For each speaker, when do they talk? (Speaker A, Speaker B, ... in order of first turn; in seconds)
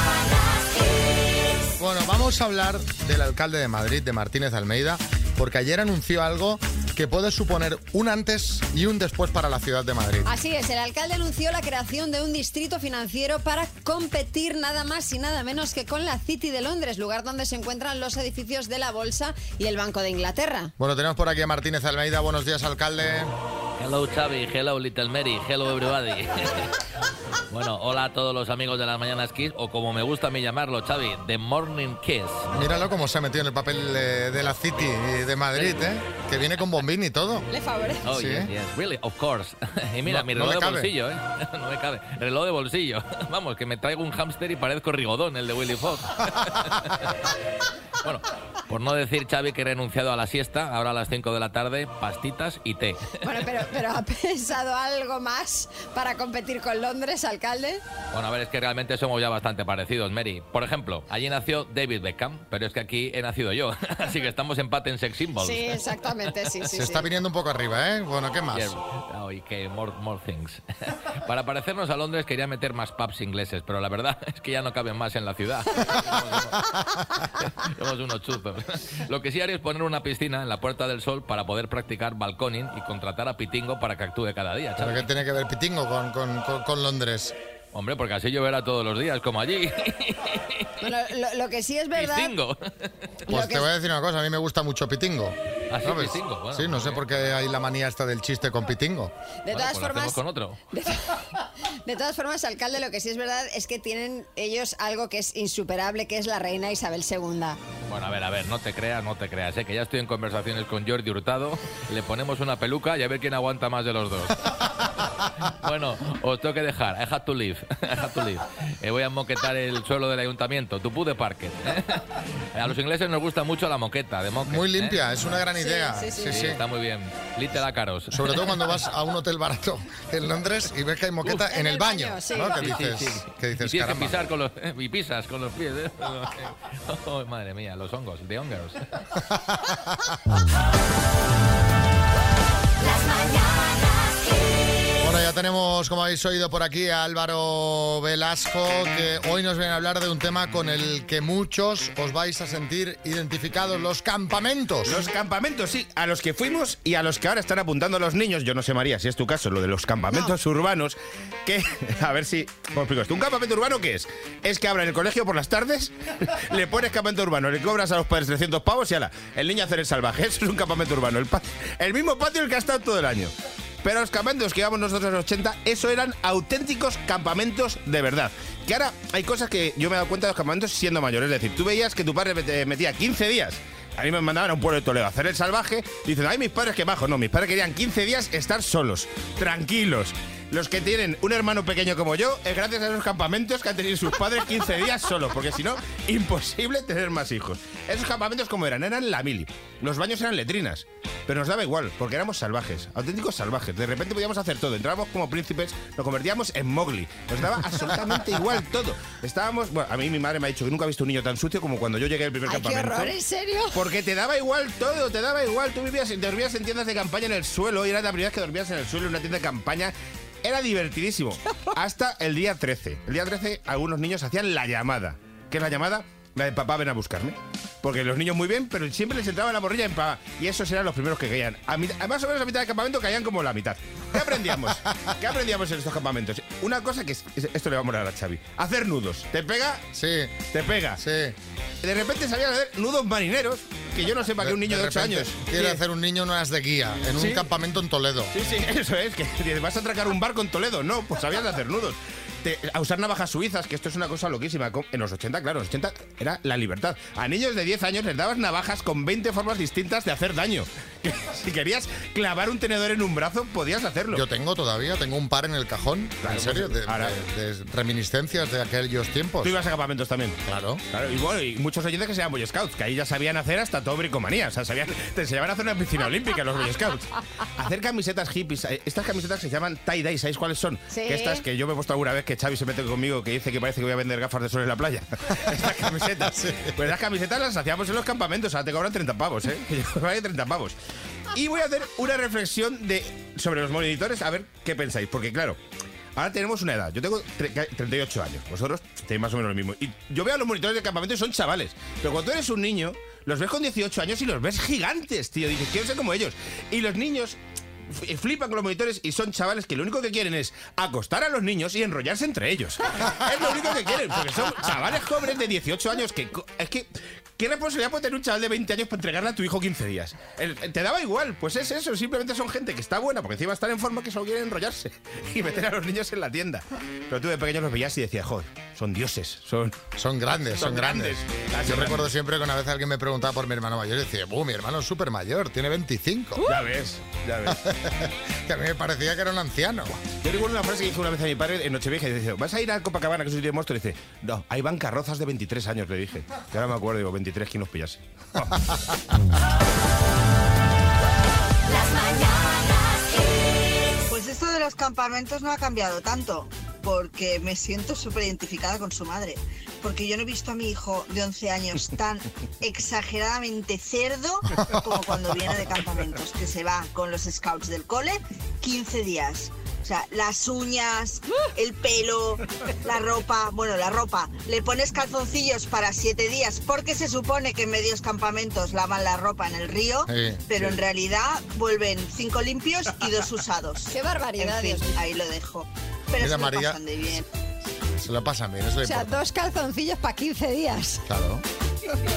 Speaker A: 1.8-10.3, 20.8-23.3, 32.5-37.5, 38.0-38.5, 40.1-40.9, 66.7-68.8, 84.8-87.3, 93.3-99.1, 124.5-126.6, 128.1-134.2, 139.2-140.2, 145.0-155.1, 234.3-235.1, 239.9-241.4, 244.4-248.3, 264.1-269.6, 270.4-270.8, 285.5-286.8, 330.0-336.5, 337.5-340.0, 380.1-380.6, 386.2-386.8, 387.9-389.2, 391.1-391.4
Speaker B: 10.3-20.7, 37.5-38.0, 53.2-57.8, 65.4-67.1, 90.8-92.3, 93.3-93.7, 99.5-100.2, 100.7-107.6, 125.6-126.3, 131.4-132.6, 212.4-213.8, 280.9-281.4, 383.9-385.0, 388.8-391.0
Speaker C: 23.8-26.7, 27.5-32.5, 35.6-35.9, 38.0-47.1, 48.0-53.6, 58.1-65.8, 68.5-70.6, 71.2-76.6, 77.4-85.1, 87.7-90.7, 91.9-92.9, 95.7-97.3, 99.5-100.6, 107.9-114.5, 115.5-125.0, 126.2-128.7, 132.5-138.8
Speaker D: 154.8-213.2, 213.7-239.8, 240.5-241.0, 241.8-245.8, 247.1-247.5, 248.3-264.2, 266.2-267.1, 269.4-290.8, 291.3-295.6, 296.1-307.4, 307.9-329.8, 330.6-332.1, 336.4-337.6, 340.2-348.5
Speaker E: 354.1-387.2